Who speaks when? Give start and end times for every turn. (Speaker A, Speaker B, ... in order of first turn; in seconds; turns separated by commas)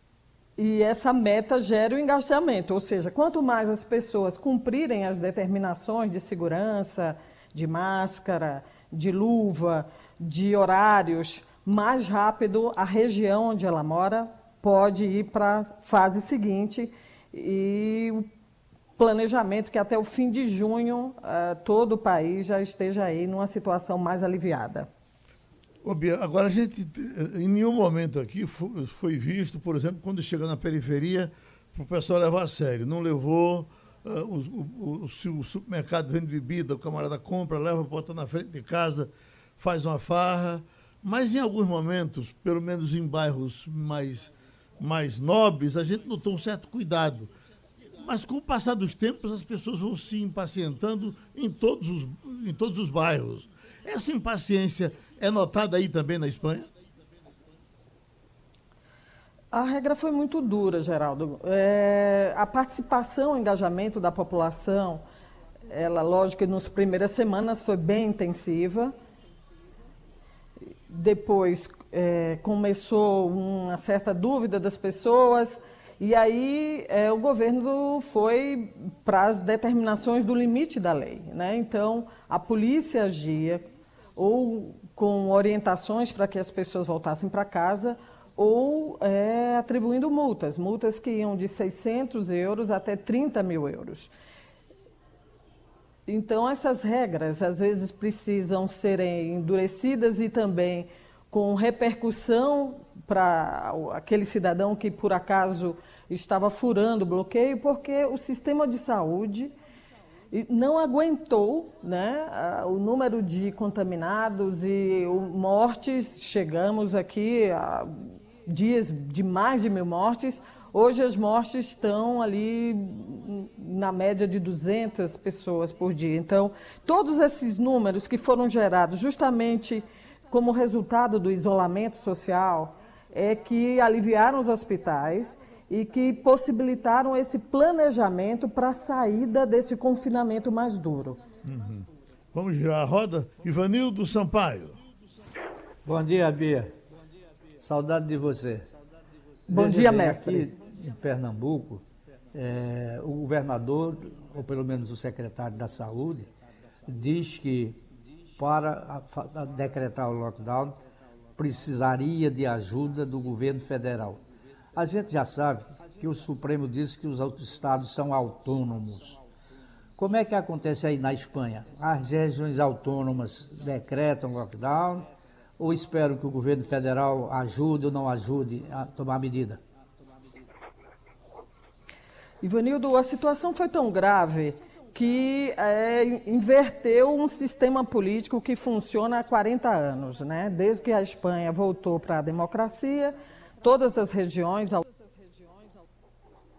Speaker A: 0.6-18.3, Speaker A: 19.0-24.9, Speaker B: 25.8-47.3, Speaker B: 47.8-56.7, Speaker A: 59.5-65.0, Speaker A: 65.7-68.9, Speaker A: 70.9-94.1, Speaker A: 96.1-109.5, Speaker A: 110.3-141.2, Speaker B: 141.4-144.8, Speaker C: 145.8-146.8, Speaker C: 147.6-148.7, Speaker C: 149.5-156.3, Speaker A: 149.5-150.5, Speaker C: 156.8-157.8, Speaker C: 158.4-160.8, Speaker C: 161.4-164.2, Speaker C: 164.8-169.2, Speaker C: 170.0-179.6, Speaker A: 182.4-195.1